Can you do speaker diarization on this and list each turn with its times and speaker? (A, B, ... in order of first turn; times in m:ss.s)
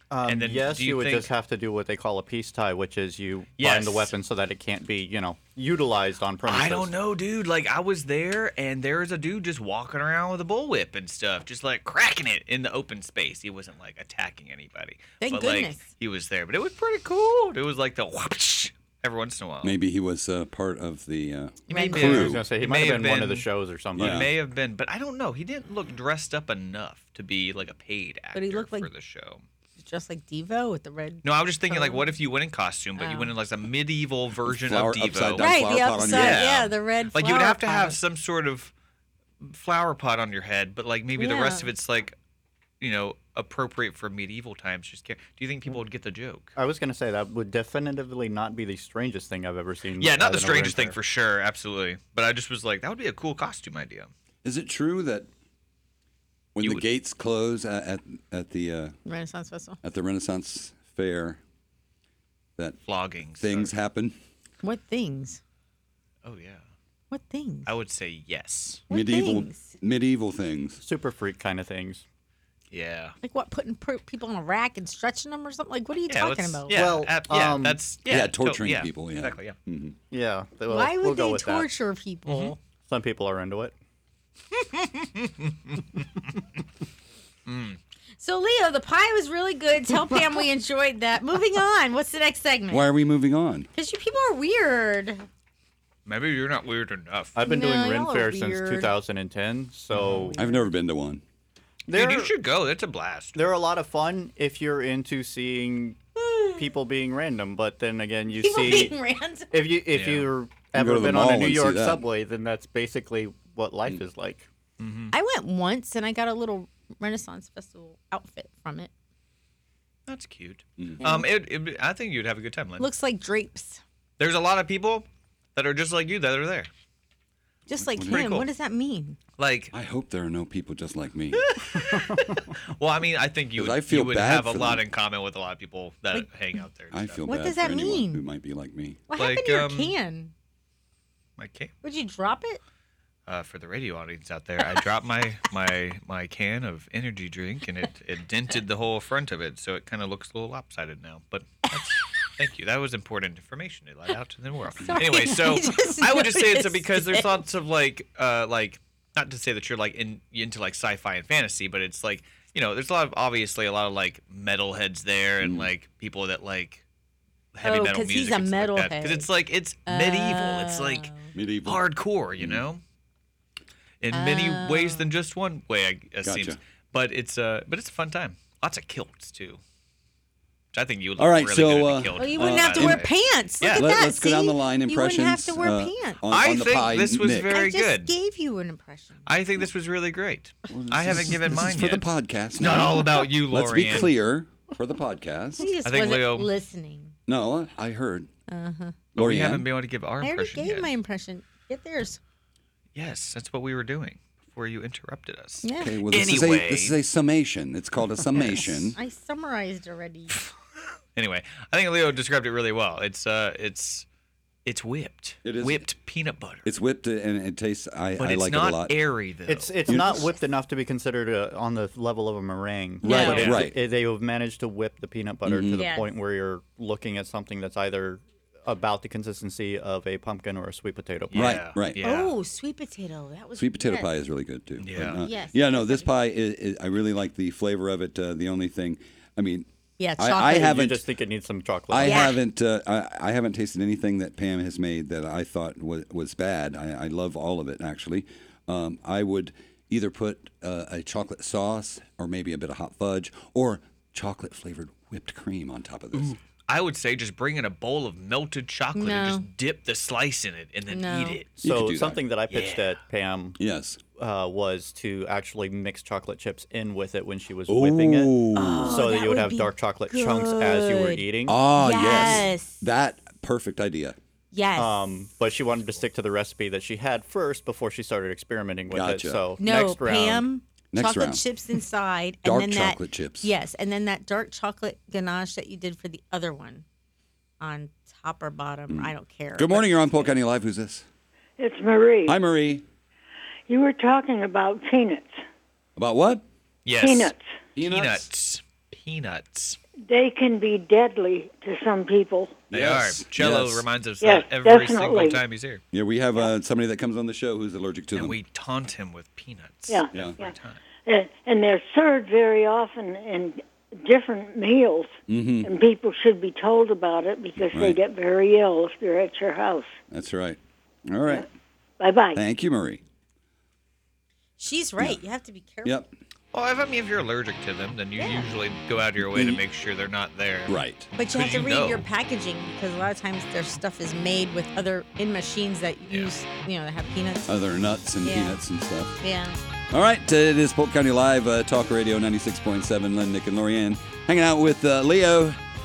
0:00.1-0:06.9 A
0:00.2-0:01.3 B
0:03.6-0:04.1 B
0:06.4-0:19.8 B
0:15.2-0:15.9 C
0:19.6-0:22.4 D
0:21.7-0:22.4 C
0:21.7-0:29.4 B
0:21.8-0:24.2 A
0:24.0-0:24.3 D
0:28.3-0:28.9 C
0:29.8-0:32.1 C
0:31.2-0:38.7 B
0:33.0-0:33.3 C
0:34.4-0:36.5 D
0:35.4-0:38.0 C
0:39.4-0:42.2 B
0:41.1-0:41.7 C
0:42.8-0:46.5 B
0:46.6-0:51.0 A
0:50.0-0:54.1 B
0:54.4-0:55.3 D
0:56.5-0:58.9 D
0:56.6-0:56.8 B
0:59.0-0:59.8 C
0:59.8-1:01.4 D
1:02.8-1:03.7 B
1:03.4-1:04.2 D
1:04.6-1:05.4 C
1:06.2-1:06.6 B
1:07.1-1:07.8 C
1:07.6-1:08.8 B
1:08.9-1:09.7 C
1:08.9-1:10.8 D
1:10.8-1:12.0 A
1:12.7-1:13.2 B
1:13.2-1:16.8 C
1:16.1-1:19.6 B
1:16.7-1:17.8 A
1:18.0-1:20.0 D
1:20.1-1:21.7 A
1:20.7-1:22.6 C
1:22.3-1:22.5 B
1:22.9-1:23.7 A
1:24.7-1:26.1 B
1:27.5-1:27.8 B
1:28.2-1:32.9 C
1:32.7-1:33.7 D
1:33.7-1:35.3 C
1:36.0-1:37.4 B
1:37.4-1:40.4 A
1:37.4-1:38.9 C
1:39.9-1:40.3 B
1:40.1-1:40.7 C
1:40.3-1:41.2 D
1:41.9-1:42.3 A
1:41.9-1:43.4 B
1:43.3-1:46.0 A
1:46.2-1:46.7 C
1:46.6-1:49.0 A
1:48.3-1:49.6 C
1:49.5-1:54.4 A
1:49.9-1:50.3 B
1:50.7-1:52.0 D
1:54.8-1:55.1 B
1:55.1-1:58.9 C
2:00.1-2:02.9 B
2:00.8-2:01.1 D
2:02.8-2:03.8 C
2:04.2-2:06.7 B
2:07.7-2:09.2 C
2:07.9-2:08.3 D
2:08.0-2:08.5 B
2:09.4-2:09.7 B
2:09.7-2:11.4 D
2:11.3-2:17.2 B
2:13.6-2:14.8 D
2:16.9-2:19.0 D
2:17.2-2:18.2 C
2:19.1-2:20.3 C
2:19.2-2:19.9 B
2:21.4-2:21.7 B
2:21.8-2:22.6 C
2:23.3-2:46.8 B
2:34.8-2:37.3 C
2:45.4-2:45.7 D
2:47.5-2:51.1 B
2:47.6-2:49.3 C
2:49.8-2:51.3 C
2:51.3-2:51.8 D
2:51.6-2:52.8 B
2:52.4-2:52.6 D
2:54.0-2:59.6 B
2:54.1-2:55.0 C
2:56.2-2:56.6 D
3:00.7-3:03.1 B
3:01.2-3:03.1 D
3:02.1-3:06.2 C
3:03.6-3:03.9 B
3:03.6-3:07.5 D
3:06.3-3:08.1 B
3:07.5-3:09.2 C
3:09.2-3:14.1 B
3:10.7-3:15.7 D
3:15.6-3:17.1 C
3:15.8-3:16.5 B
3:17.3-3:18.3 D
3:18.5-3:19.0 C
3:19.1-3:20.9 B
3:19.2-3:19.6 D
3:20.2-3:22.2 C
3:22.9-3:27.0 B
3:25.6-3:26.0 C
3:25.7-3:29.0 D
3:28.6-3:30.4 C
3:31.1-3:34.0 B
3:34.6-3:36.7 B
3:35.4-3:35.9 D
3:36.6-3:39.0 D
3:38.2-3:39.8 B
3:39.4-3:51.6 A
3:39.9-3:40.2 D
3:39.9-3:40.3 C
3:43.0-3:43.8 D
3:43.0-3:43.4 C
3:43.1-3:43.7 B
3:45.4-3:45.8 D
3:45.7-3:46.1 C
3:51.3-3:52.3 B
3:51.3-3:52.0 D
3:52.0-3:54.1 C
3:53.6-3:59.7 D
3:54.8-3:55.2 B
3:55.2-3:56.1 C
4:00.0-4:00.8 C
4:00.2-4:01.0 D
4:00.6-4:02.2 A
4:01.9-4:16.4 D
4:02.0-4:02.4 C
4:16.1-4:21.5 B
4:18.9-4:19.5 C
4:20.9-4:21.4 C
4:21.6-4:23.6 A
4:21.6-4:22.2 D
4:22.5-4:22.9 B
4:23.6-4:24.0 D
4:24.2-4:31.6 A
4:27.7-4:29.0 D
4:28.5-4:31.2 C
4:31.5-4:34.2 D
4:31.8-4:32.8 C
4:34.5-4:35.0 C
4:34.8-4:40.5 A
4:38.9-4:39.4 D
4:39.6-4:46.8 C
4:40.9-4:41.4 D
4:42.4-4:43.5 D
4:47.6-4:50.3 C
4:48.9-4:51.0 D
4:51.6-4:52.4 E
4:52.2-4:52.8 D
4:53.7-4:55.3 E
4:56.0-4:56.4 D
4:56.8-4:59.8 B
4:57.0-4:57.4 E
4:57.7-4:58.2 D
5:00.1-5:02.6 E
5:02.7-5:03.8 D
5:02.7-5:05.8 B
5:04.2-5:05.4 E
5:05.9-5:08.4 D
5:08.1-5:10.8 B
5:09.9-5:10.5 E
5:11.0-5:15.1 E
5:15.3-5:15.7 D
5:15.6-5:19.9 E
5:17.7-5:18.0 D
5:20.1-5:20.6 D
5:21.1-5:21.5 D
5:22.0-5:22.4 E
5:22.3-5:23.0 D
5:24.6-5:26.0 C
5:25.8-5:26.1 D
5:26.5-5:32.0 B
5:28.2-5:28.5 C
5:29.2-5:29.6 D
5:30.7-5:31.1 D
5:31.1-5:37.6 C
5:37.5-5:39.1 D
5:38.2-5:38.6 C
5:39.2-5:39.6 C
5:39.9-5:45.6 D